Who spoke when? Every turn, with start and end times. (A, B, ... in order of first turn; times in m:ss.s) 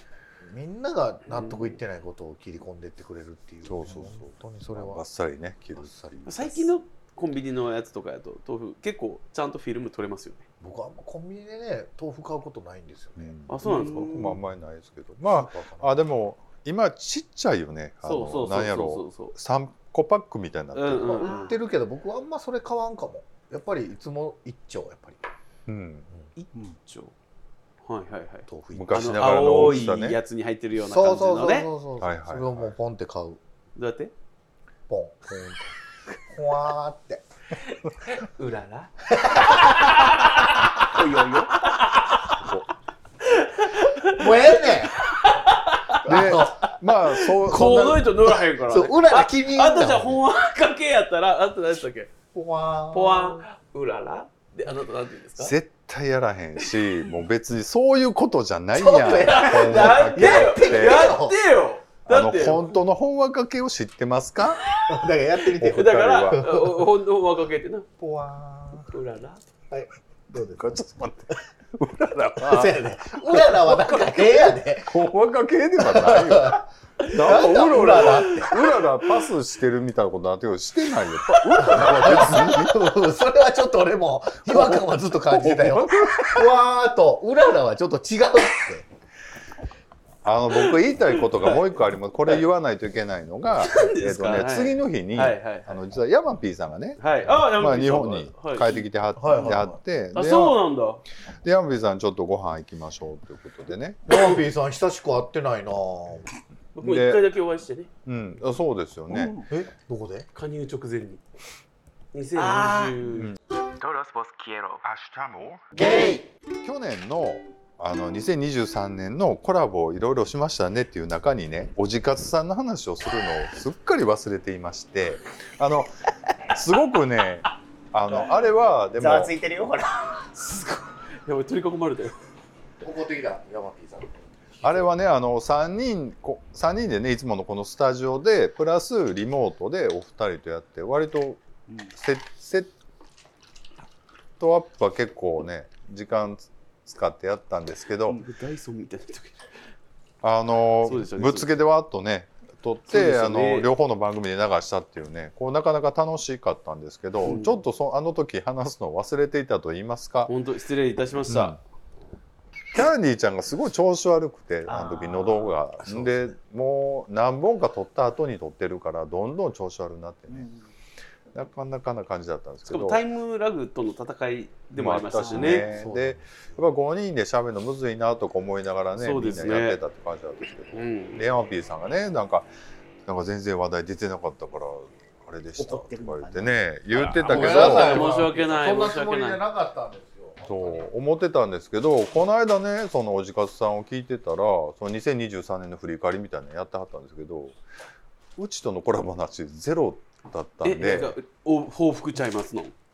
0:00.4-0:05.0 A
0:01.3-0:01.8 B
0:03.6-0:06.4 C
0:05.8-0:06.7 A
0:06.3-0:10.5 B
0:10.6-0:13.4 A
0:13.2-0:21.3 C
0:13.5-0:14.3 B
0:13.6-0:14.4 D
0:15.2-0:16.0 A
0:18.0-0:19.3 B
0:20.7-0:21.6 B
0:21.0-0:25.2 A
0:25.7-0:26.1 C
0:26.4-0:27.1 B
0:27.8-0:31.7 B
0:28.5-0:29.9 A
0:28.7-0:30.2 C
0:30.8-0:33.4 A
0:32.0-0:32.7 C
0:33.8-0:34.1 B
0:34.9-0:35.7 A
0:36.3-0:37.2 A
0:37.7-0:40.8 B
0:39.1-0:39.9 A
0:40.9-0:41.6 D
0:41.6-0:42.4 B
0:42.4-0:42.7 C
0:43.2-0:52.1 B
0:44.1-0:45.1 A
0:46.0-0:46.7 A
0:46.0-0:48.1 C
0:47.5-0:50.1 A
0:52.3-0:53.4 A
0:52.9-0:55.6 B
0:55.4-1:01.2 C
0:58.7-1:01.4 A
0:59.0-1:02.7 B
1:02.1-1:04.7 C
1:04.7-1:05.0 B
1:04.9-1:06.8 A
1:05.6-1:06.4 C
1:05.6-1:07.9 B
1:08.0-1:08.9 A
1:08.9-1:09.4 B
1:09.7-1:10.8 A
1:10.3-1:22.9 C
1:12.4-1:15.0 A
1:15.8-1:18.5 A
1:17.0-1:18.9 B
1:21.3-1:22.6 B
1:21.6-1:28.9 A
1:24.5-1:26.5 C
1:30.2-1:40.6 C
1:30.5-1:31.6 B
1:33.6-1:35.8 B
1:37.0-1:38.7 B
1:39.2-1:39.8 A
1:40.2-1:41.0 B
1:41.4-1:44.0 C
1:44.1-1:46.3 A
1:46.8-1:47.9 B
1:46.8-1:47.2 C
1:48.0-1:49.4 C
1:49.1-1:49.4 D
1:49.5-1:50.3 A
1:50.4-1:51.2 B
1:52.1-1:54.8 B
1:54.8-1:55.6 C
1:56.6-2:05.9 C
2:06.5-2:09.3 C
2:09.0-2:10.3 D
2:10.4-2:12.2 B
2:12.8-2:14.2 A
2:14.6-2:21.4 C
2:21.9-2:22.7 C
2:24.4-2:28.2 C
2:28.1-2:29.4 B
2:30.2-2:40.3 C
2:30.8-2:31.5 B
2:32.9-2:33.7 B
2:37.2-2:37.6 B
2:40.3-2:41.6 B
2:41.3-2:41.6 C
2:42.7-2:50.5 C
2:44.7-2:46.1 D
2:50.3-2:50.6 D
2:51.3-2:53.0 C
2:52.7-2:55.7 B
2:54.7-3:02.5 C
2:55.3-2:56.4 A
2:59.0-2:59.8 B
3:00.7-3:01.2 B
3:03.0-3:08.1 C
3:05.6-3:06.6 D
3:07.1-3:09.4 B
3:07.2-3:10.8 A
3:10.5-3:17.6 C
3:18.4-3:21.2 C
3:20.6-3:22.8 B